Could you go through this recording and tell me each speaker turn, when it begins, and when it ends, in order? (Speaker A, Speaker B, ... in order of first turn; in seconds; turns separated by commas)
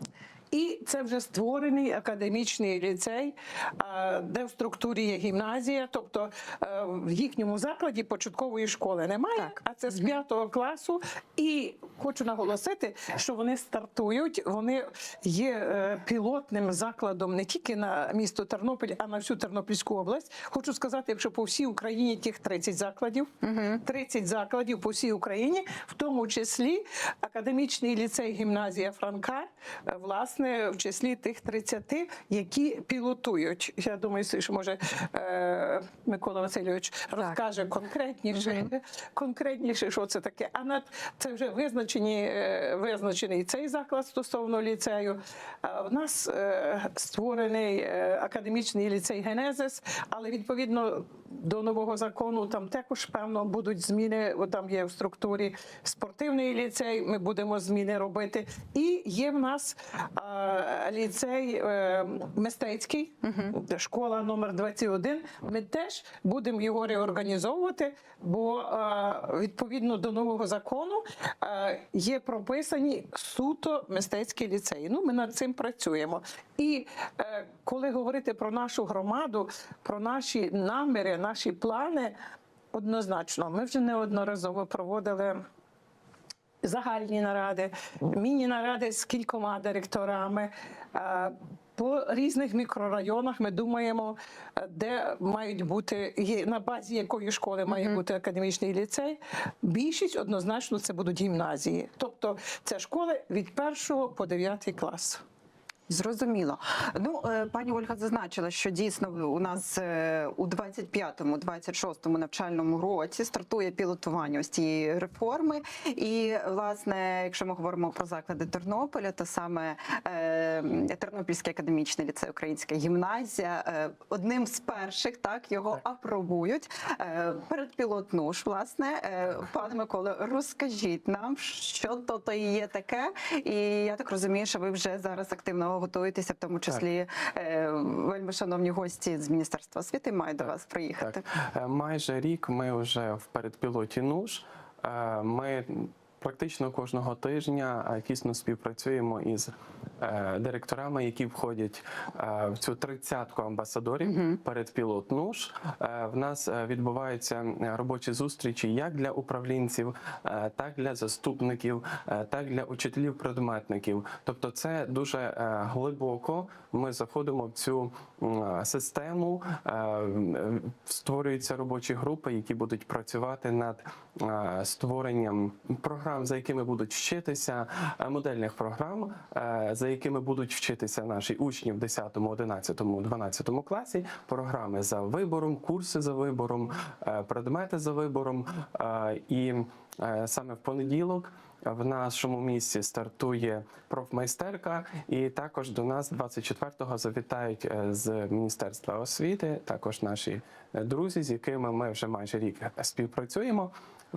Speaker A: 0.5-23.3, Speaker B: 23.4-23.8, Speaker A: 23.8-82.1, Speaker B: 63.2-63.5, Speaker A: 82.7-85.4, Speaker A: 86.6-105.2, Speaker B: 97.7-98.0, Speaker B: 105.9-141.2, Speaker C: 141.0-203.7, Speaker B: 154.0-154.4